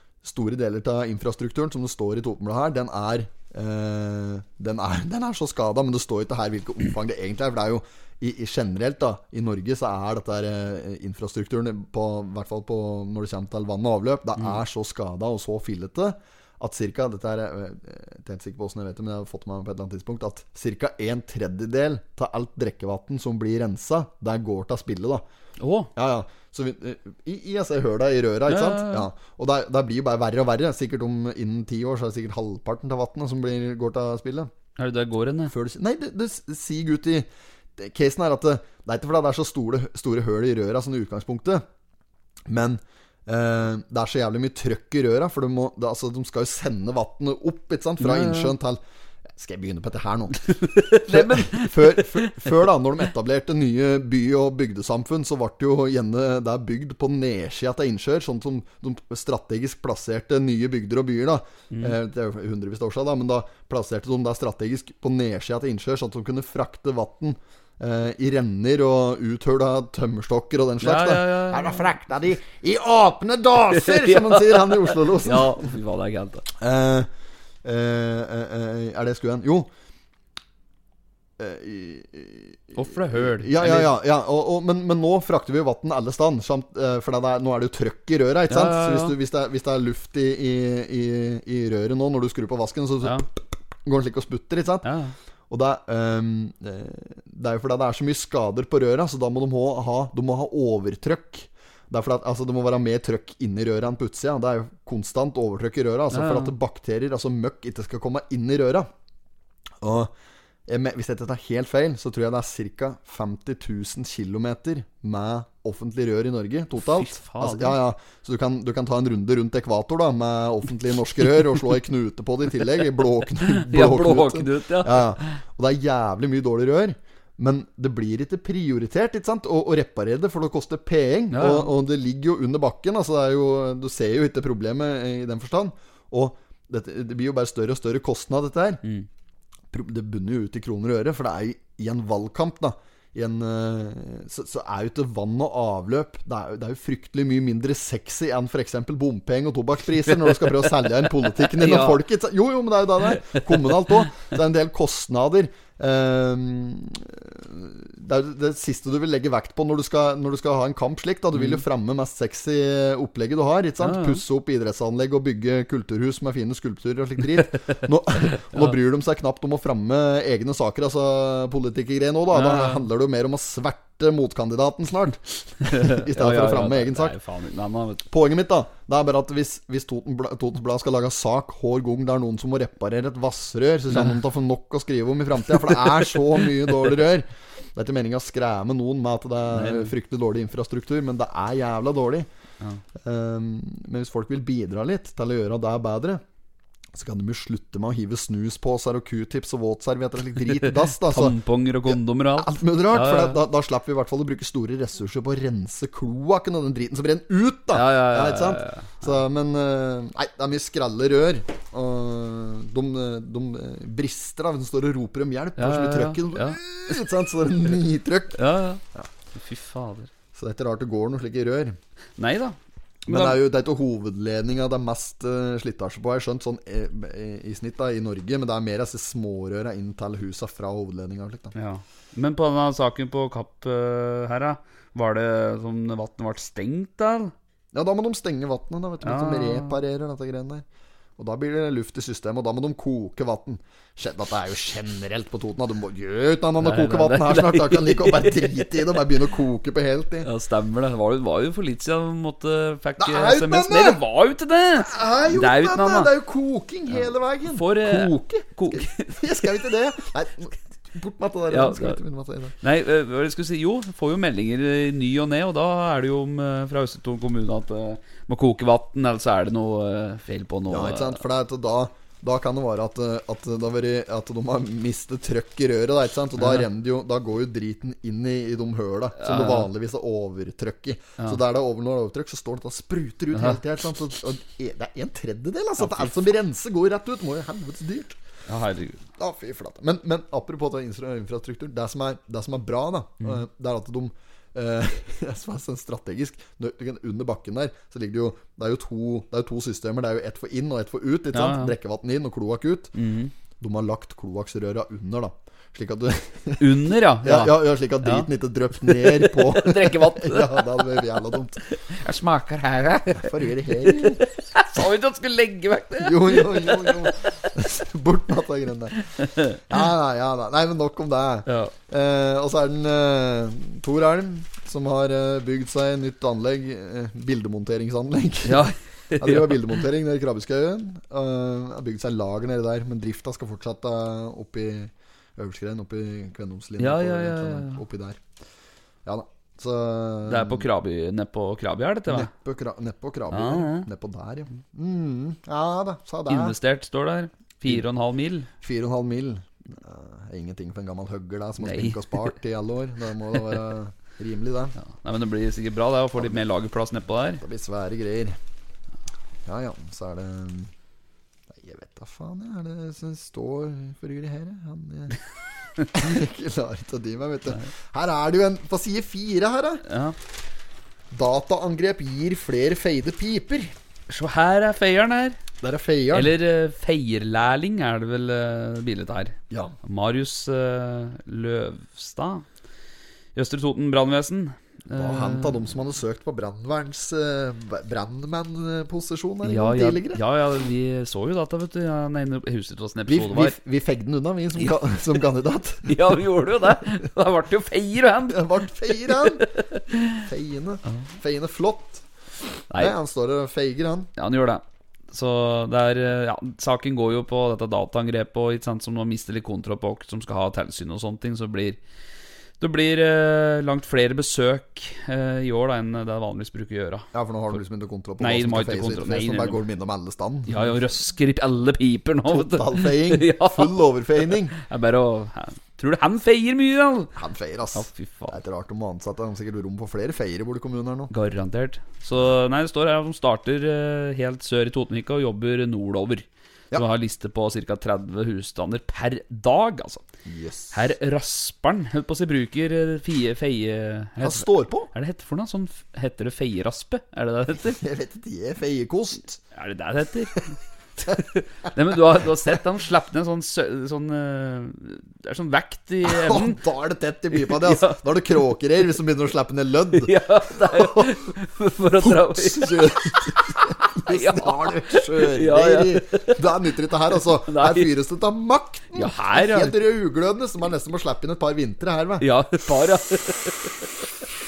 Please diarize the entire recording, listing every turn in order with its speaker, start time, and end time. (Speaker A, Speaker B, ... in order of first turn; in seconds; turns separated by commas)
Speaker A: 0.2-25.2, Speaker B: 25.6-25.9, Speaker A: 25.9-34.5, Speaker B: 28.5-29.1, Speaker B: 34.8-35.5, Speaker A: 35.5-41.6, Speaker A: 42.5-48.8, Speaker B: 48.0-48.5, Speaker A: 49.3-75.7, Speaker B: 50.5-52.5, Speaker B: 61.7-62.0, Speaker B: 70.8-71.9, Speaker B: 73.7-76.5, Speaker A: 76.6-77.1, Speaker A: 77.6-79.7, Speaker A: 81.4-94.9, Speaker B: 82.8-83.9, Speaker B: 88.5-89.2, Speaker B: 94.8-95.1, Speaker A: 95.5-108.9, Speaker B: 106.1-106.5, Speaker A: 109.8-110.1, Speaker A: 110.7-138.8, Speaker B: 116.8-117.8, Speaker B: 123.5-125.4, Speaker B: 131.3-131.7, Speaker A: 139.7-177.1, Speaker B: 150.1-152.0, Speaker B: 153.2-154.1, Speaker B: 161.3-161.6, Speaker B: 163.8-164.2, Speaker B: 167.5-168.8, Speaker B: 172.3-172.8, Speaker B: 175.6-178.1, Speaker A: 178.1-192.3, Speaker B: 189.5-189.9, Speaker A: 192.9-196.2, Speaker A: 196.9-218.4, Speaker B: 200.9-203.4, Speaker B: 207.7-209.1, Speaker B: 215.6-217.0, Speaker B: 218.3-218.8, Speaker B: 219.3-220.1, Speaker A: 220.3-221.8, Speaker B: 222.2-223.4, Speaker A: 223.1-231.5, Speaker B: 231.5-237.3, Speaker A: 237.7-240.6, Speaker B: 239.0-239.8, Speaker A: 241.2-250.3, Speaker B: 246.6-248.8, Speaker B: 250.2-256.1, Speaker A: 253.0-254.0, Speaker A: 254.8-262.5, Speaker B: 256.9-259.2, Speaker B: 261.5-262.0, Speaker B: 262.6-271.2, Speaker A: 270.7-288.2, Speaker B: 276.4-276.6, Speaker B: 279.2-279.7, Speaker B: 285.8-286.1, Speaker B: 288.5-289.0, Speaker A: 289.2-302.9, Speaker B: 301.3-301.7, Speaker B: 302.9-303.3, Speaker A: 303.6-306.7, Speaker B: 306.6-308.3, Speaker A: 307.2-311.6, Speaker B: 308.8-310.9, Speaker B: 311.7-317.1, Speaker A: 313.1-314.2, Speaker A: 316.0-319.0, Speaker B: 319.2-319.7, Speaker A: 319.7-328.6, Speaker B: 321.4-321.7, Speaker B: 328.4-329.7, Speaker A: 329.2-338.2, Speaker B: 336.8-337.8, Speaker A: 339.0-340.7, Speaker B: 340.3-342.3, Speaker A: 342.1-346.6, Speaker B: 343.3-343.9, Speaker B: 346.3-348.5, Speaker A: 348.6-354.8, Speaker B: 351.6-352.3, Speaker B: 354.8-357.4, Speaker A: 357.4-358.4, Speaker A: 359.4-360.7, Speaker A: 361.5-365.2, Speaker A: 365.9-369.8, Speaker B: 369.8-370.1, Speaker A: 371.1-373.7, Speaker B: 374.1-375.4, Speaker A: 375.6-376.3, Speaker B: 376.1-382.4, Speaker A: 379.5-379.7, Speaker B: 383.3-385.6, Speaker A: 384.9-390.2, Speaker B: 389.4-393.6, Speaker A: 393.1-396.2, Speaker B: 395.8-400.2, Speaker A: 398.3-399.5, Speaker A: 400.2-402.0, Speaker A: 402.8-404.1, Speaker B: 404.2-411.8, Speaker B: 412.6-417.1, Speaker A: 417.1-420.7, Speaker B: 418.2-419.6, Speaker B: 420.5-423.8, Speaker A: 422.2-424.5, Speaker B: 424.5-427.1, Speaker A: 427.1-431.1, Speaker B: 427.7-428.4, Speaker B: 431.1-440.1, Speaker A: 440.2-440.8, Speaker B: 440.7-447.8, Speaker A: 444.2-444.9, Speaker A: 447.6-449.4, Speaker B: 449.5-456.6, Speaker A: 456.0-461.2, Speaker B: 457.3-458.0, Speaker B: 459.9-466.4, Speaker A: 462.0-472.3, Speaker B: 467.4-467.9, Speaker B: 468.9-469.8, Speaker B: 472.2-473.7